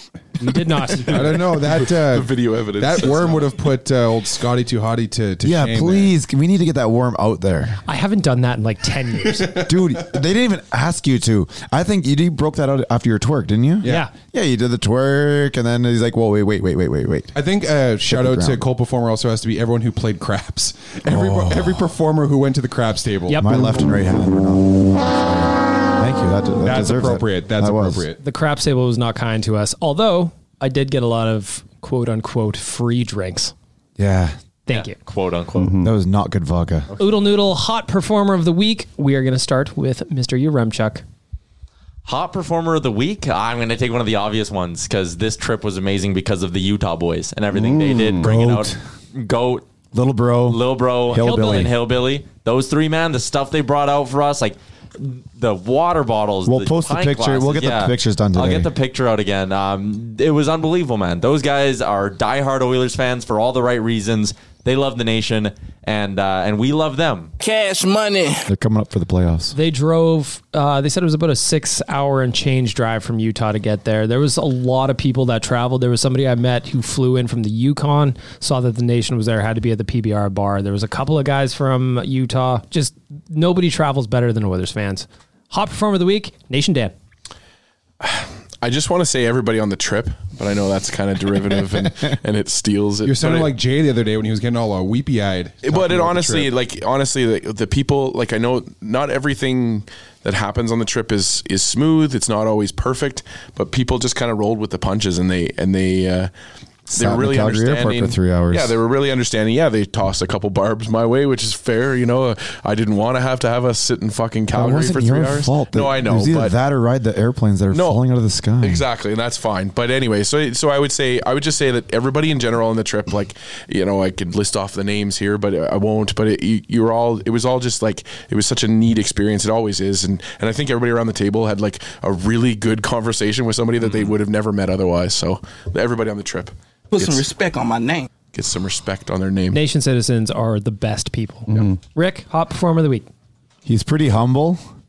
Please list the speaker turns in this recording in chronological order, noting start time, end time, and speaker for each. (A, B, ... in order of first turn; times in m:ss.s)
0:00.4-0:01.2 A
0:01.0-0:06.1 B
0:01.7-0:03.7 C
0:05.4-0:07.8 D
0:07.9-0:09.6 A
0:09.6-0:17.3 D
0:13.8-0:14.1 B
0:13.8-0:14.1 A
0:17.3-0:23.5 B
0:18.0-0:18.6 D
0:21.1-0:21.9 D
0:23.3-0:23.8 A
0:23.4-0:28.1 D
0:26.6-0:28.2 B
0:28.2-0:33.5 A
0:34.0-0:34.4 D
0:34.7-0:35.0 A
0:34.7-0:35.7 E
0:35.6-0:35.9 B
0:35.8-0:36.9 D
0:37.0-0:41.0 A
0:42.1-0:49.7 E
0:47.5-0:48.3 B
0:48.2-0:48.8 D
0:49.9-0:51.7 D
0:50.5-1:07.3 E
0:51.2-0:51.7 A
0:56.5-0:58.7 D
1:07.4-1:08.5 F
1:08.5-1:09.6 D
1:09.5-1:26.9 A
1:28.0-1:33.6 C
1:33.0-1:36.5 B
1:35.6-1:46.3 C
1:46.9-1:48.8 D
1:46.9-1:56.5 C
1:54.5-1:58.8 D
1:57.7-1:58.0 C
1:58.6-2:17.3 C
2:13.8-2:14.1 E
2:16.9-2:18.1 F
2:18.3-2:19.6 C
2:19.5-2:23.1 A
2:21.5-2:21.8 B
2:23.6-2:24.6 D